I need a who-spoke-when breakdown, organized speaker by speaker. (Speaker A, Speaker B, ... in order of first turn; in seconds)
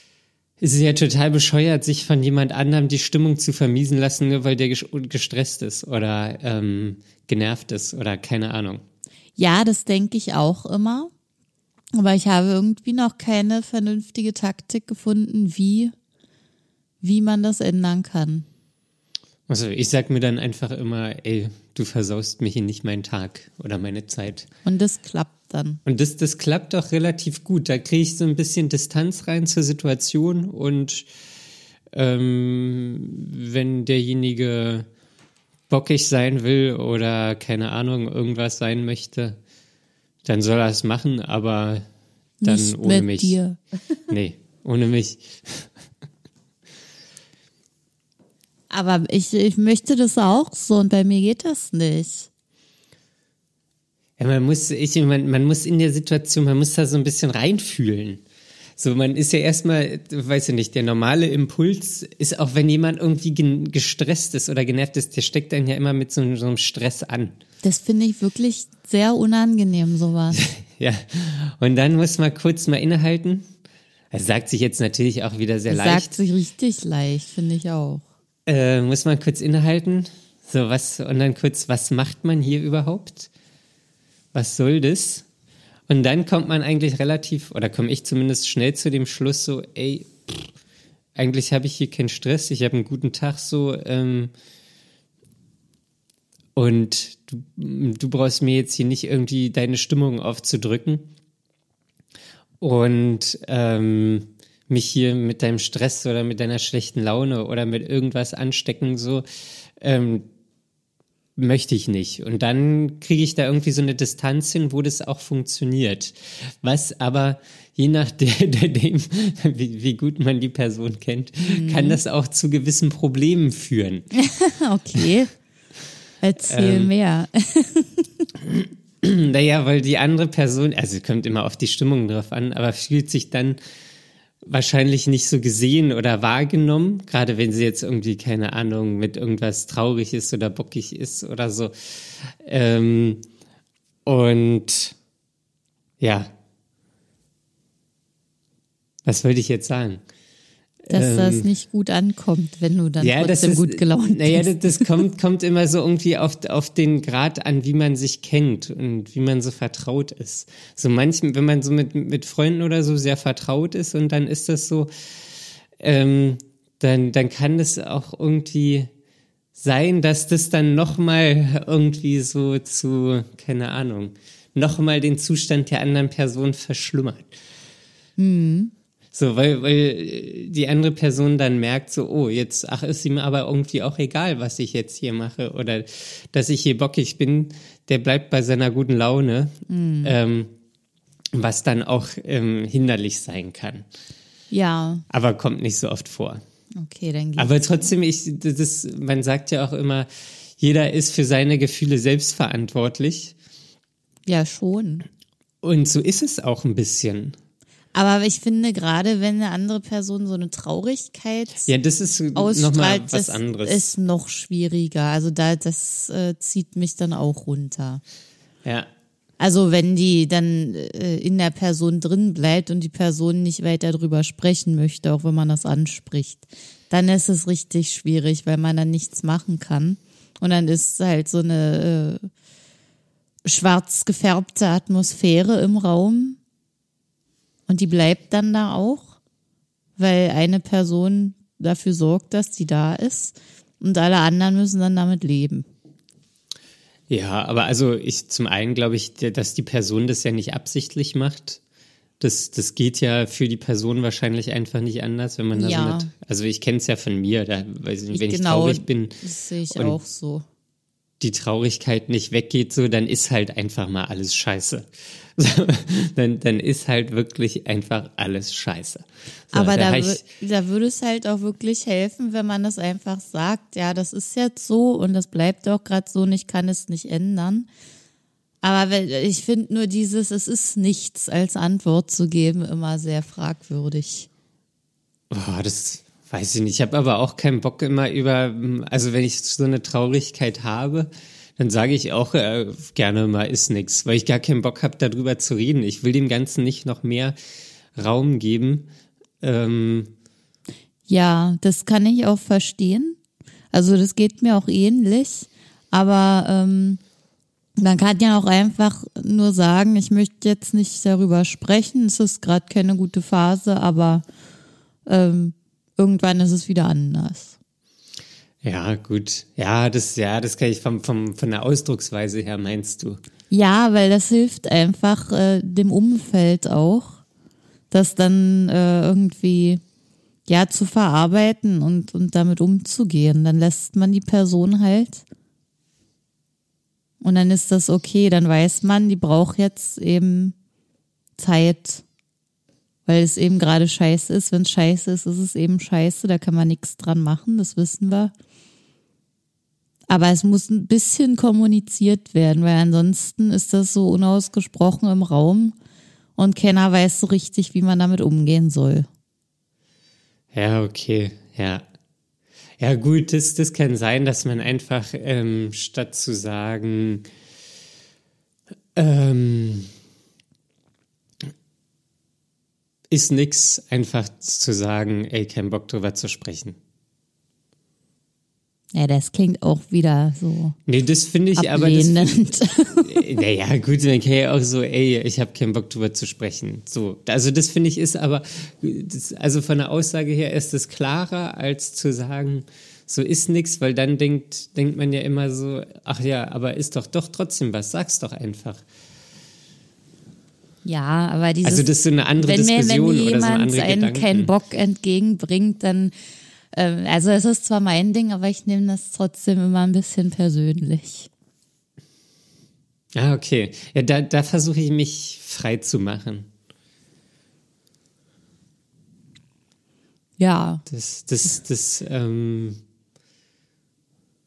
Speaker A: 0.6-8.8, 19.5-24.5, 25.9-31.1, 31.9-34.9, 35.7-39.4, 40.2-41.9, 42.5-43.4, 44.1-45.7, 54.2-58.2, 58.8-67.4, 70.3-73.5, 74.1-76.2, 78.5-83.3, 84.3-85.3, 85.9-90.1, 91.2-94.3, 96.5-101.1, 102.6-109.2, 109.8-110.3, 111.4-124.1, 126.4-126.9, 128.4-133.6, 134.5-143.2, 144.1-144.9, 146.0-146.3, 149.1-150.0, 150.9-151.5, 153.0-164.9, 165.8-168.9, 169.6-177.3, 179.1-190.5, 191.3-193.8, 195.1-196.4, 197.4-200.1, 200.6-203.3, 205.6-207.4, 211.7-213.9, 247.1-251.6, 252.2-259.2, 259.7-260.0, 261.2-270.2, 285.3-297.4, 298.0-298.9, 299.4-300.1, 318.6-323.2, 360.5-361.9, 362.8-367.3, 369.0-369.9, 373.1-376.8, 380.9-382.4, 383.0-398.8, 401.6-404.5, 413.2-416.5, 420.9-422.8
Speaker B: 9.4-11.1, 11.9-15.9, 17.0-18.5, 24.6-25.8, 42.4-43.6, 48.7-52.3, 67.6-70.4, 75.7-78.0, 121.5-122.0, 124.1-125.3, 126.2-128.3, 150.9-154.9, 178.2-178.7, 189.7-190.1, 194.5-195.1, 196.8-197.9, 204.3-205.1, 207.9-211.7, 212.3-218.0, 219.4-232.3, 233.4-236.4, 237.7-239.2, 240.0-245.7, 255.5-256.1, 258.1-260.4, 269.5-277.7, 278.6-284.3, 301.1-303.2, 303.7-307.0, 307.8-314.2, 315.1-317.6, 323.5-327.2, 327.9-329.8, 330.5-335.2, 337.2-340.6, 341.4-342.0, 343.1-348.3, 350.1-355.8, 356.4-359.1, 378.9-380.8, 381.6-383.2, 400.8-406.1, 406.7-411.3, 420.4-420.8